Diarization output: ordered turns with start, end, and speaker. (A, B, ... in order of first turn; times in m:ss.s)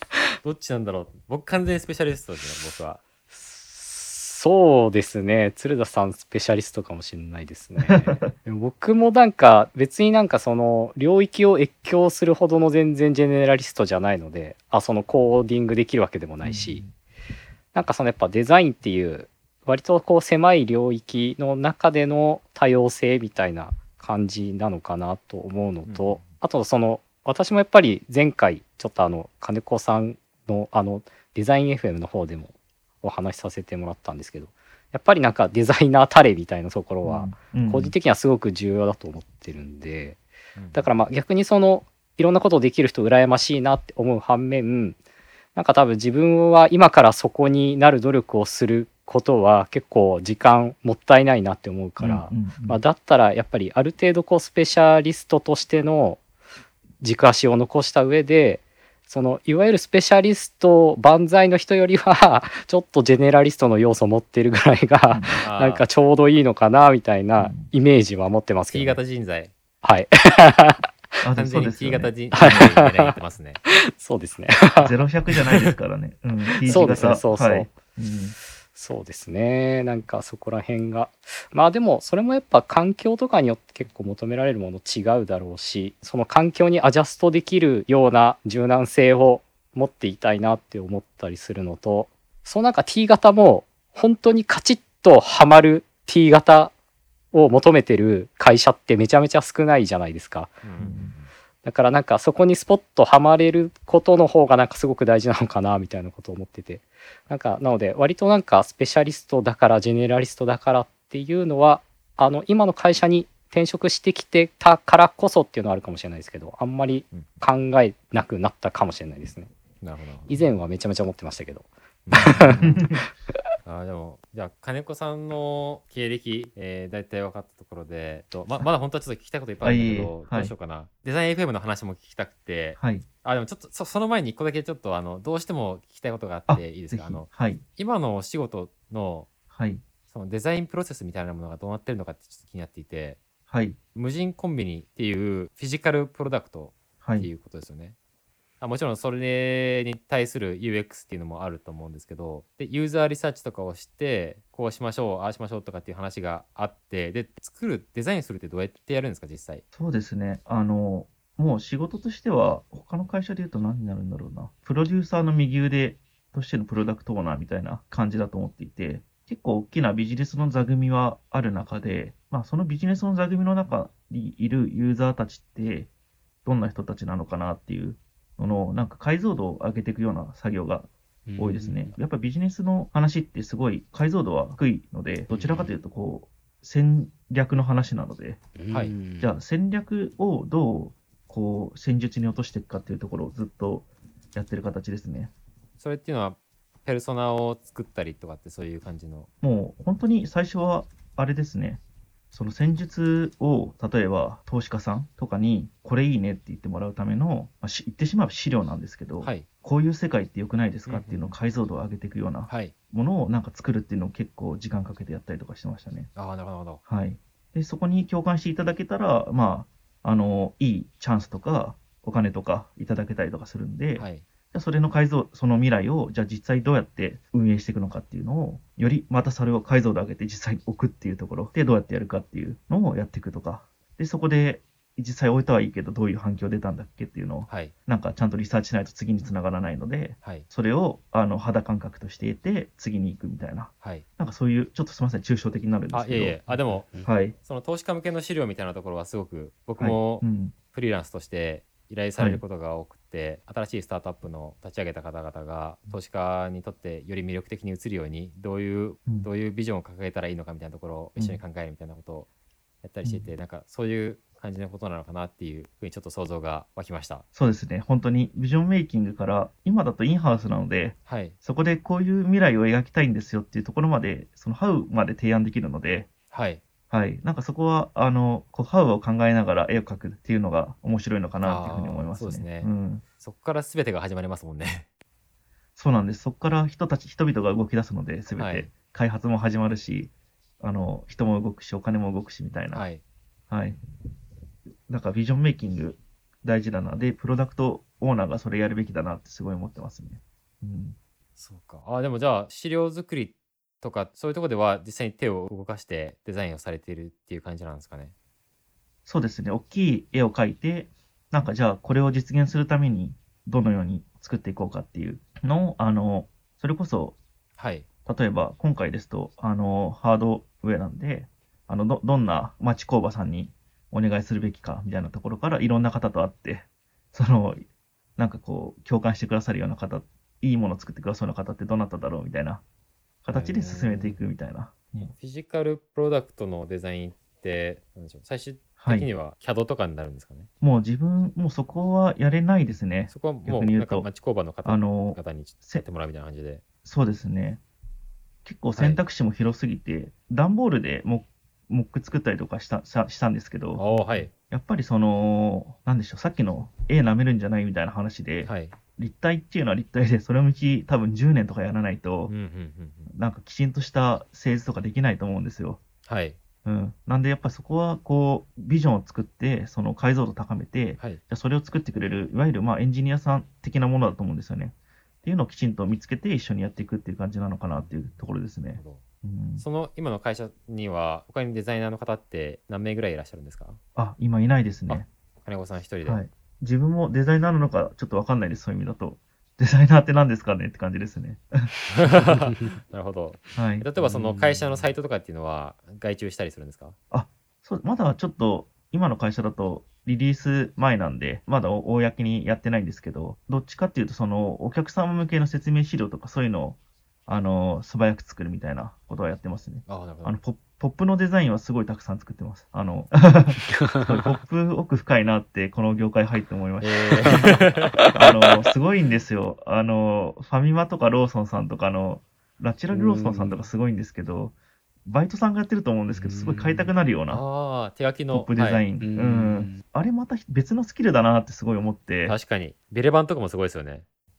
0:00.4-0:03.0 A
0:03.3-0:16.8 B
0:07.8-0:08.3 C
0:16.4-0:16.9 C
0:17.7-0:40.2 B
0:25.9-0:26.2 A
0:37.0-0:37.9 C
0:40.6-0:40.9 A
0:40.7-0:45.0 B
0:45.6-0:56.2 B
0:52.0-0:52.8 C
0:57.0-1:09.0 B
1:05.1-1:05.4 C
1:05.4-1:05.8 A
1:07.4-1:07.7 C
1:08.7-1:09.5 A
1:09.8-1:10.9 B
1:11.2-1:12.6 C
1:11.4-1:13.6 A
1:12.3-1:13.2 B
1:13.7-1:15.0 B
1:14.8-1:18.4 C
1:16.7-1:17.1 A
1:16.7-1:17.7 B
1:18.7-1:36.7 B
1:37.3-1:40.6 B
1:40.6-1:41.3 A
1:40.8-1:41.1 C
1:41.6-1:59.5 B
1:59.8-2:00.3 A
2:00.3-2:03.0 B
2:02.1-2:02.8 A
2:02.2-2:03.0 C
2:03.6-2:19.3 A
2:09.6-2:10.5 C
2:12.8-2:13.0 C
2:16.5-2:17.6 C
2:19.5-2:19.8 C
2:20.1-2:23.2 A
2:23.5-2:23.8 C
2:24.0-2:28.0 A
2:27.0-2:27.3 C
2:28.6-2:39.6 A
2:39.7-2:55.9 C
2:56.4-3:08.4 C
3:01.3-3:02.0 B
3:05.3-3:05.7 B
3:08.6-3:09.4 B
3:09.2-3:15.3 C
3:15.8-3:19.3 A
3:19.4-3:36.1 C
3:29.2-3:29.5 A
3:30.9-3:31.4 A
3:32.5-3:32.7 A
3:36.2-3:36.8 A
3:36.9-4:07.4 C
3:44.0-3:44.2 A
3:57.5-3:57.7 A
4:00.2-4:00.5 A
4:05.9-4:22.3 A
4:09.8-4:10.6 C
4:22.8-4:27.3 A
4:23.0-4:23.3 C
4:27.4-4:36.1 C
4:31.1-4:31.4 A
4:36.3-4:36.6 A
4:36.9-4:43.0 C
4:41.4-4:44.9 A
4:45.8-4:52.8 C
4:48.4-4:48.7 A
4:52.7-4:53.0 A
4:53.5-4:53.8 C
4:54.9-5:01.0 C
5:01.4-5:08.1 A
5:09.0-5:17.2 C
5:17.6-5:17.9 A
5:18.1-5:27.6 C
5:28.2-5:32.6 C
5:33.2-5:35.1 C
5:33.3-5:34.2 A
5:35.0-5:40.5 A
5:38.8-5:39.1 C
5:40.6-5:44.1 C
5:43.1-5:46.6 A
5:44.6-5:45.8 C
5:46.8-5:47.6 C
5:48.4-6:02.3 C
5:48.8-5:49.0 A
5:53.7-5:54.3 A
5:58.4-5:58.8 A
6:02.3-6:03.1 A
6:03.1-6:05.8 C
6:06.1-6:06.4 A
6:06.6-6:19.6 C
6:17.8-6:18.1 A
6:18.8-6:19.0 A
6:19.6-6:23.8 A
6:24.0-6:25.1 C
6:24.9-6:26.2 A
6:26.0-6:31.7 C
6:31.9-6:37.0 A
6:32.4-6:32.7 B
6:33.6-6:33.9 C
6:34.0-6:34.9 B
6:37.1-6:57.5 C
6:49.9-6:50.4 A
6:53.8-6:54.3 B
6:56.8-6:58.1 A
6:58.1-7:04.6 C
7:02.9-7:03.6 B
7:05.1-7:07.4 C
7:06.1-7:06.9 B
7:07.3-7:08.8 A
7:08.3-7:12.4 C
7:09.0-7:09.8 B
7:12.2-7:14.0 A